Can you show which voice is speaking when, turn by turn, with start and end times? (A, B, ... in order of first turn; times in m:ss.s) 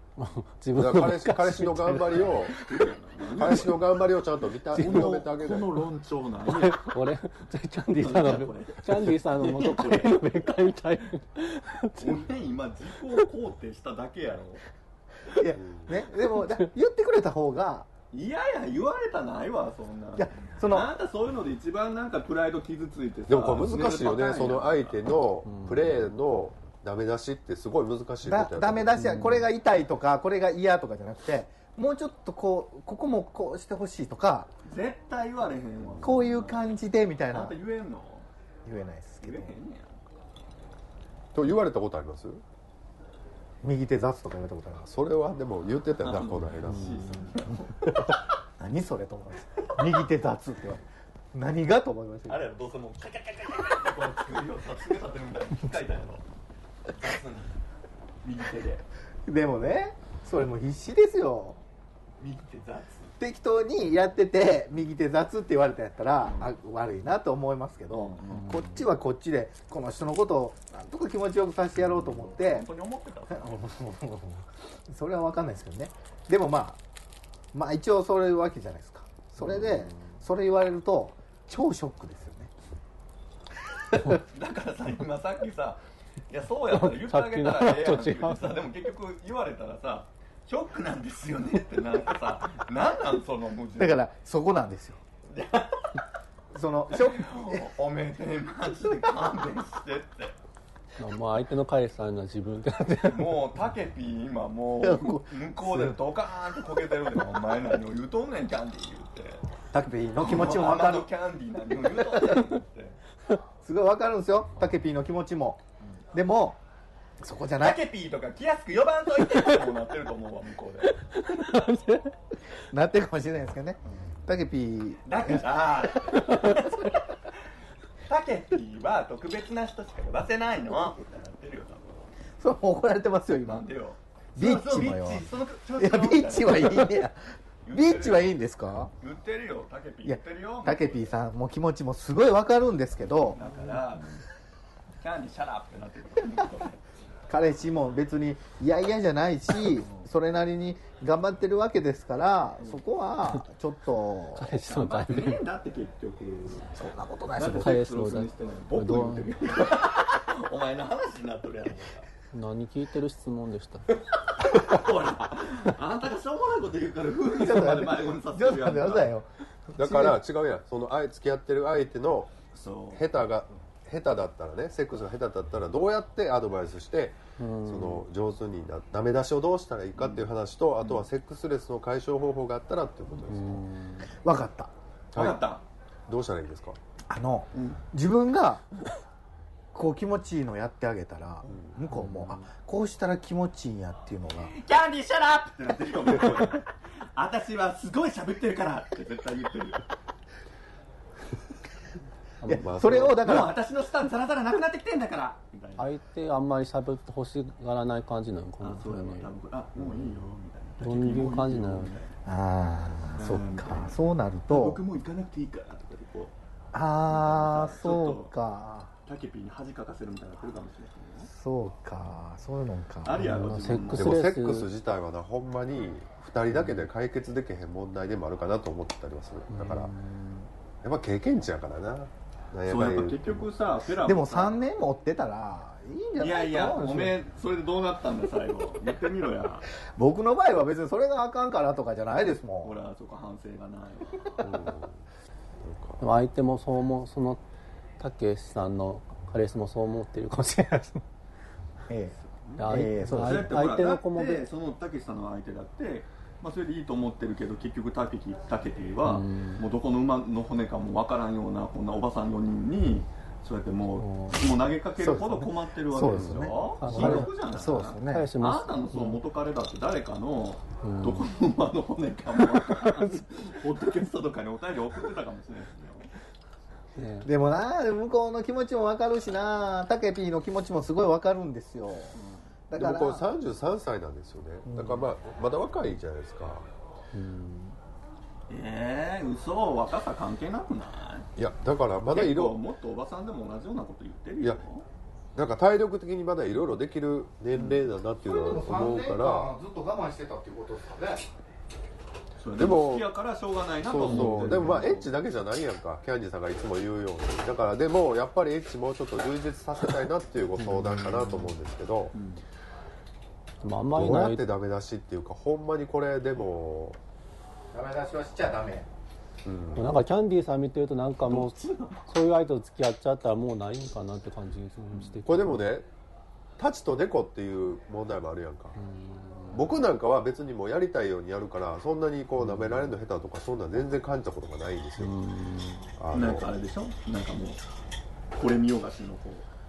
0:00.2-0:02.9 A
0:00.8-0:02.5 B
0:02.5-0:04.0 C
0:03.4-0:05.8 B
0:04.7-0:07.0 C
0:04.7-0:05.2 A
0:06.5-0:12.3 A
0:07.9-0:10.7 C
0:12.0-0:14.7 C
0:15.3-0:17.9 D
0:15.6-0:15.9 B
0:18.1-0:25.1 C
0:20.2-0:20.9 D
0:23.3-0:29.1 B
0:25.4-0:25.9 A
0:28.2-0:34.5 D
0:29.0-0:29.3 A
0:34.6-0:36.7 C
0:36.0-0:37.6 D
0:37.3-0:38.3 C
0:38.6-0:39.6 D
0:39.2-0:40.0 C
0:41.3-0:42.4 B
0:43.6-0:44.9 D
0:44.8-0:47.3 B
0:46.0-0:48.1 C
0:48.6-0:50.8 D
0:51.3-0:52.5 D
0:52.3-0:56.2 C
0:56.9-0:57.6 C
0:58.2-0:58.9 C
0:59.2-1:01.6 D
1:02.2-1:03.1 C
1:03.2-1:12.7 D
1:06.2-1:06.5 C
1:07.9-1:08.6 C
1:12.0-1:13.7 C
1:13.3-1:16.8 D
1:17.5-1:22.5 D
1:24.1-1:34.1 C
1:26.7-1:28.5 A
1:33.8-1:35.0 D
1:35.3-1:36.0 C
1:36.5-1:37.7 D
1:36.9-1:40.4 C
1:41.0-1:43.3 A
1:43.1-1:49.4 C
1:44.8-1:45.9 D
1:49.7-1:51.1 D
1:50.2-1:53.0 C
1:53.6-1:56.6 D
1:57.2-1:57.8 D
1:57.6-2:01.0 C
2:01.2-2:02.1 A
2:02.7-2:06.8 D
2:05.1-2:06.9 C
2:08.0-2:12.1 C
2:12.4-2:13.6 D
2:13.4-2:17.0 C
2:14.4-2:15.2 D
2:15.8-2:18.9 D
2:17.6-2:18.4 C
2:19.0-2:21.1 C
2:20.0-2:23.4 D
2:23.3-2:24.2 C
2:25.0-2:26.8 C
2:27.3-2:34.5 D
2:34.4-2:35.4 A
2:34.5-2:36.8 C
2:36.7-2:37.8 D
2:37.3-2:42.1 C
2:37.5-2:39.3 A
2:42.3-2:43.8 A
2:44.1-2:49.2 C
2:47.3-2:50.2 D
2:49.8-2:52.3 B
2:52.5-2:53.1 C
2:52.9-3:03.6 B
2:57.4-2:58.1 A
3:03.3-3:04.1 A
3:04.1-3:04.7 D
3:05.1-3:05.4 B
3:05.1-3:05.6 C
3:06.1-3:06.8 B
3:07.1-3:08.6 D
3:07.5-3:07.8 C
3:09.7-3:14.5 D
3:11.5-3:11.8 B
3:11.9-3:12.4 A
3:14.5-3:19.9 C
3:22.4-3:23.5 D
3:22.5-3:23.3 B
3:23.1-3:25.9 C
3:25.8-3:29.3 A
3:28.6-3:32.1 C
3:29.8-3:30.1 B
3:30.8-3:31.9 A
3:32.2-3:34.8 D
3:33.1-3:36.3 C
3:36.7-3:38.9 D
3:37.1-3:38.3 C
3:39.1-3:41.3 C
3:41.3-3:43.2 D
3:43.0-3:44.2 C
3:43.1-3:44.7 A
3:43.9-3:49.9 B
3:49.5-3:50.5 A
3:50.8-3:53.5 B
3:52.6-3:54.6 C
3:54.0-3:57.2 D
3:56.2-3:59.7 C
4:00.0-4:02.8 D
4:02.6-4:04.7 C
4:04.4-4:05.0 B
4:05.6-4:06.0 B
4:06.0-4:07.4 A
4:08.0-4:11.0 A
4:11.9-4:12.1 D
4:12.2-4:36.1 C
4:12.6-4:14.4 A
4:12.6-4:13.5 D
4:19.1-4:19.6 A
4:24.0-4:24.4 A
4:25.0-4:28.3 D
4:26.1-4:26.5 B
4:26.8-4:27.3 A
4:28.1-4:29.2 A
4:30.8-4:31.3 A
4:36.9-4:37.3 A
4:37.2-4:42.2 D
4:42.2-4:42.4 C
4:42.7-4:43.2 D
4:42.8-4:46.7 B
4:44.7-4:45.1 D
4:47.1-4:47.8 A
4:48.5-4:51.3 C
4:51.4-4:52.6 B
4:52.1-4:54.8 C
4:55.4-4:59.5 B
4:57.5-4:57.8 C
4:58.2-5:01.2 D
5:02.4-5:05.1 C
5:02.6-5:03.1 B
5:03.8-5:12.1 B
5:04.2-5:04.8 A
5:10.6-5:11.5 A
5:12.1-5:12.4 C
5:13.6-5:14.5 A
5:13.9-5:17.0 B
5:17.7-5:18.9 D
5:19.4-5:20.0 B
5:19.8-5:21.6 A
5:21.3-5:22.1 C
5:22.1-5:25.6 A
5:25.1-5:25.9 B
5:26.6-5:28.8 B
5:28.8-5:29.7 A
5:29.5-5:35.1 B
5:32.4-5:32.9 A
5:35.0-5:35.9 A
5:36.0-5:36.5 B
5:36.1-5:37.6 C
5:38.3-5:39.5 C